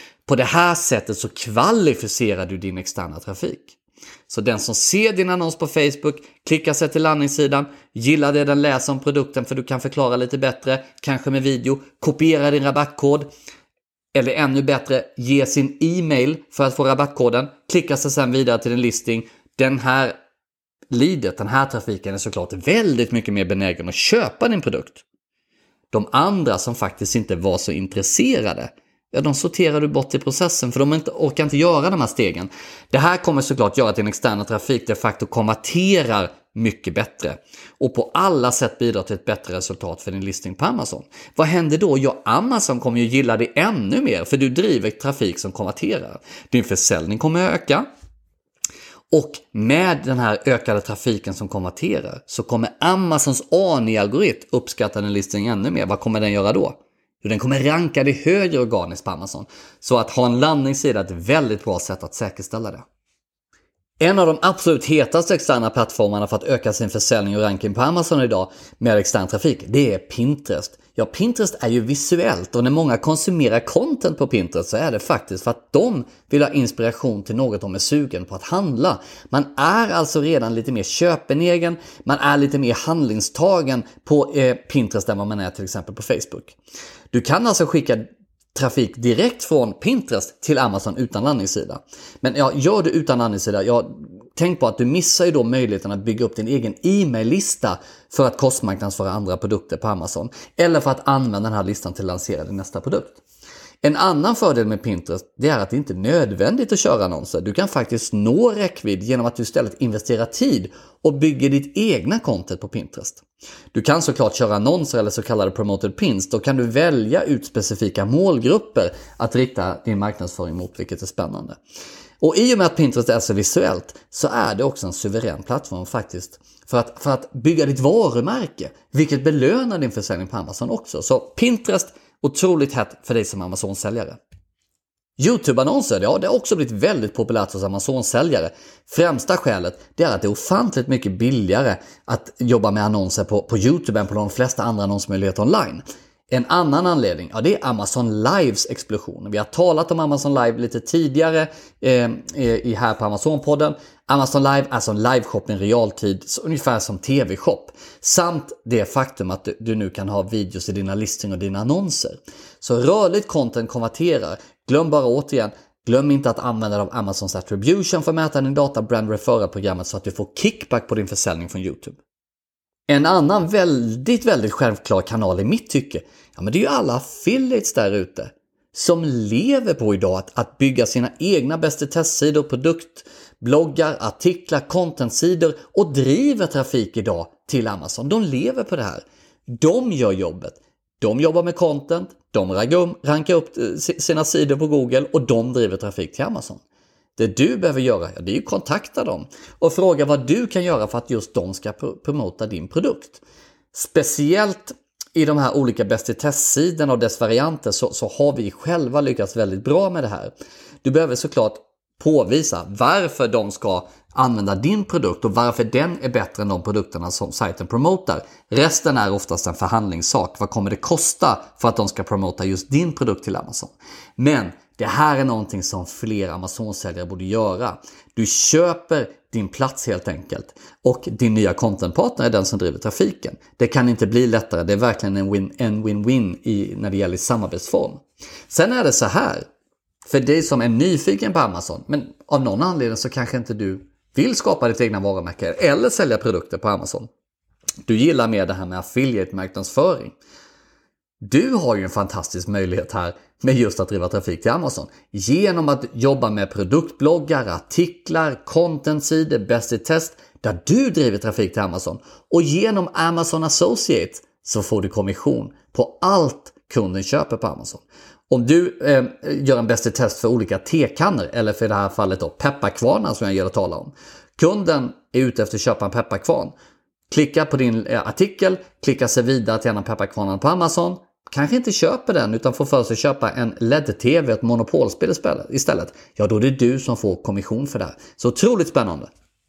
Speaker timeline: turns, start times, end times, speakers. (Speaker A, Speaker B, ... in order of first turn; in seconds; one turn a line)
Speaker A: 0.3-3.8
Speaker A: 4.3-13.3
Speaker A: 14.2-20.2
Speaker A: 20.9-25.0
Speaker A: 25.9-47.9
Speaker A: 49.1-62.9
Speaker A: 64.0-86.6
Speaker A: 87.1-103.2
Speaker A: 103.8-121.6
Speaker A: 122.2-134.2
Speaker A: 135.2-172.0
Speaker A: 172.9-196.6
Speaker A: 197.2-203.2
Speaker A: 203.7-210.3
Speaker A: 210.8-239.5
Speaker A: 240.1-247.1
Speaker A: 247.9-250.2
Speaker A: 251.2-276.5
Speaker A: 277.1-289.1